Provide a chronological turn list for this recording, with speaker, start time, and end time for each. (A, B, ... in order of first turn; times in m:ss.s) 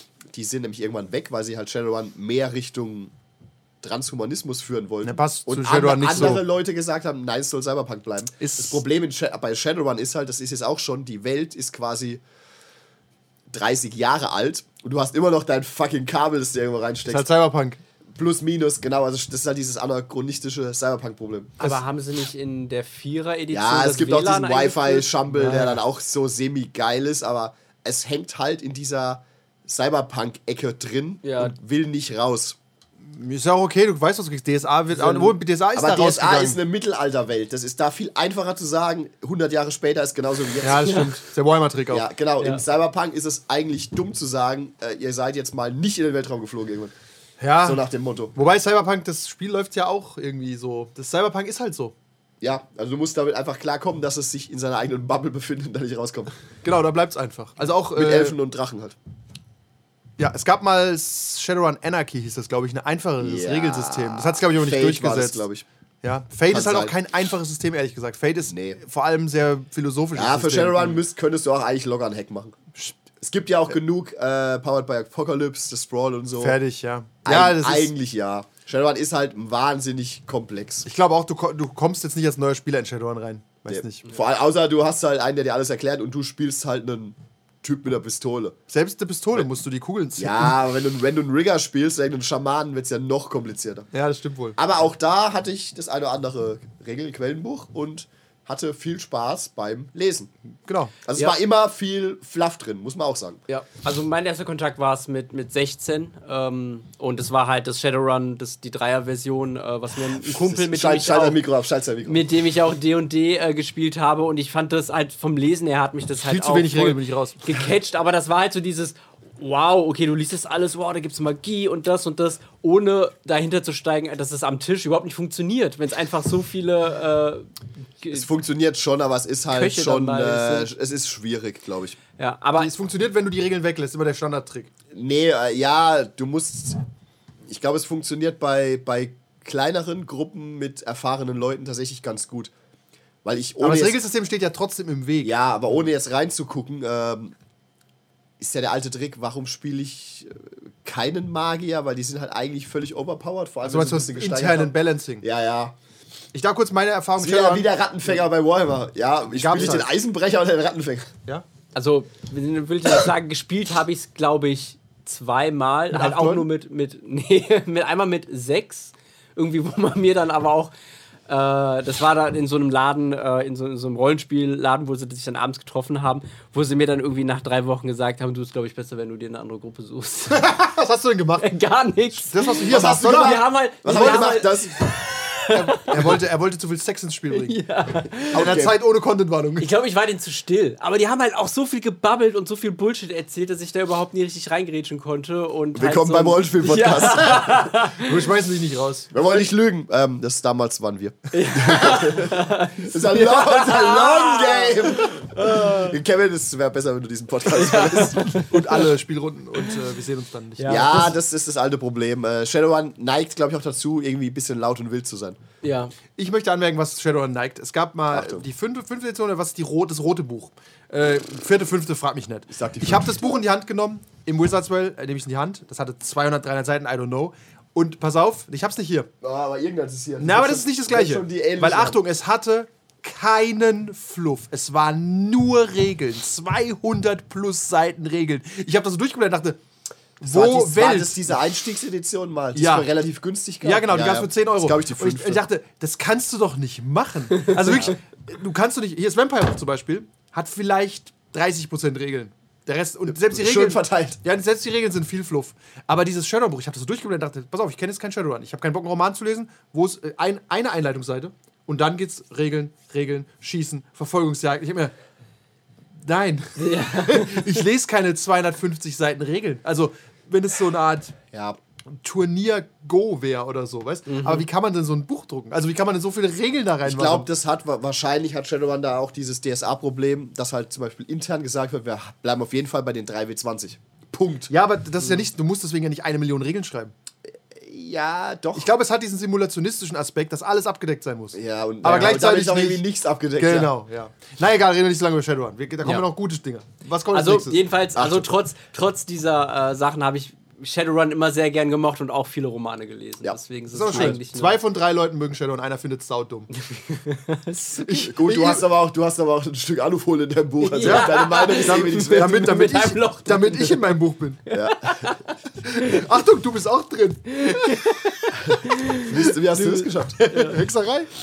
0:00.3-0:03.1 A
0:03.8-0:12.2 A
0:05.0-0:06.4 B
0:08.4-0:08.8 B
0:13.5-0:17.3 A
0:17.1-0:17.8 B
0:18.1-0:21.6 A
0:21.6-0:25.1 C
0:23.5-0:32.6 A
0:25.3-0:25.8 B
0:31.2-0:31.5 C
0:33.0-0:36.6 B
0:34.9-0:41.0 A
0:40.6-0:42.1 B
0:41.9-0:46.9 A
0:47.4-0:47.8 B
0:47.6-0:48.3 A
0:48.3-0:51.9 B
0:52.4-0:56.3 A
0:56.6-0:58.4 B
0:57.9-0:59.0 A
1:00.2-1:05.4 B
1:03.2-1:05.6 A
1:06.0-1:11.0 B
1:06.5-1:06.9 A
1:08.5-1:08.8 A
1:10.1-1:16.6 A
1:16.4-1:17.9 B
1:17.2-1:20.9 A
1:20.8-1:24.1 B
1:23.7-1:28.6 A
1:28.7-1:30.6 B
1:30.2-1:33.9 A
1:33.9-1:34.6 B
1:34.6-1:40.3 A
1:40.6-1:40.9 B
1:41.0-1:43.4 A
1:43.5-1:51.4 C
1:50.2-1:52.2 A
1:52.0-2:07.5 C
1:56.2-1:57.4 B
2:08.1-2:12.0 A
2:09.5-2:10.7 C
2:12.2-2:12.7 C
2:12.6-2:14.7 B
2:14.9-2:16.8 A
2:17.5-2:22.5 A
2:23.2-2:24.0 A
2:23.6-2:25.3 B
2:25.2-2:27.3 A
2:28.4-2:35.7 A
2:33.6-2:35.2 B
2:36.3-2:37.7 B
2:37.2-2:41.1 A
2:39.3-2:39.9 B
2:41.7-2:50.7 C
2:45.9-2:46.5 B
2:51.3-3:00.6 C
3:00.3-3:01.5 B
3:01.4-3:06.1 C
3:02.2-3:04.4 B
3:02.7-3:04.8 A
3:05.5-3:07.6 B
3:07.3-3:08.5 C
3:08.3-3:09.7 B
3:08.3-3:08.8 A
3:09.6-3:18.1 C
3:15.7-3:17.5 A
3:18.0-3:19.1 B
3:19.1-3:28.4 A
3:21.3-3:26.0 C
3:27.5-3:28.8 C
3:28.4-3:31.1 B
3:30.6-3:31.1 C
3:30.6-3:35.4 A
3:35.6-3:35.9 C
3:36.2-3:49.1 B
3:38.1-3:38.4 A
3:42.5-3:43.4 A
3:49.2-3:52.0 A
3:50.2-3:59.6 B
4:00.2-4:01.4 B
4:00.2-4:05.4 A
4:02.5-4:02.9 B
4:03.6-4:24.9 B
4:13.1-4:14.2 A
4:26.0-4:31.2 B
4:26.6-4:27.6 C
4:31.3-4:31.6 A
4:32.0-4:37.3 B
4:34.1-4:34.5 C
4:36.8-4:44.5 A
4:44.5-4:46.9 B
4:47.5-4:48.7 A
4:48.5-4:52.8 B
4:51.3-4:53.7 A
4:53.4-4:57.6 B
4:57.1-5:04.6 C
4:58.0-4:58.3 A
5:03.2-5:04.2 A
5:03.7-5:06.5 B
5:06.5-5:08.1 C
5:07.8-5:08.6 B
5:07.9-5:12.5 A
5:10.6-5:13.8 C
5:10.8-5:14.4 B
5:14.5-5:16.0 C
5:14.5-5:15.2 A
5:15.6-5:18.2 B
5:17.3-5:20.6 C
5:18.4-5:20.2 A
5:20.2-5:21.1 B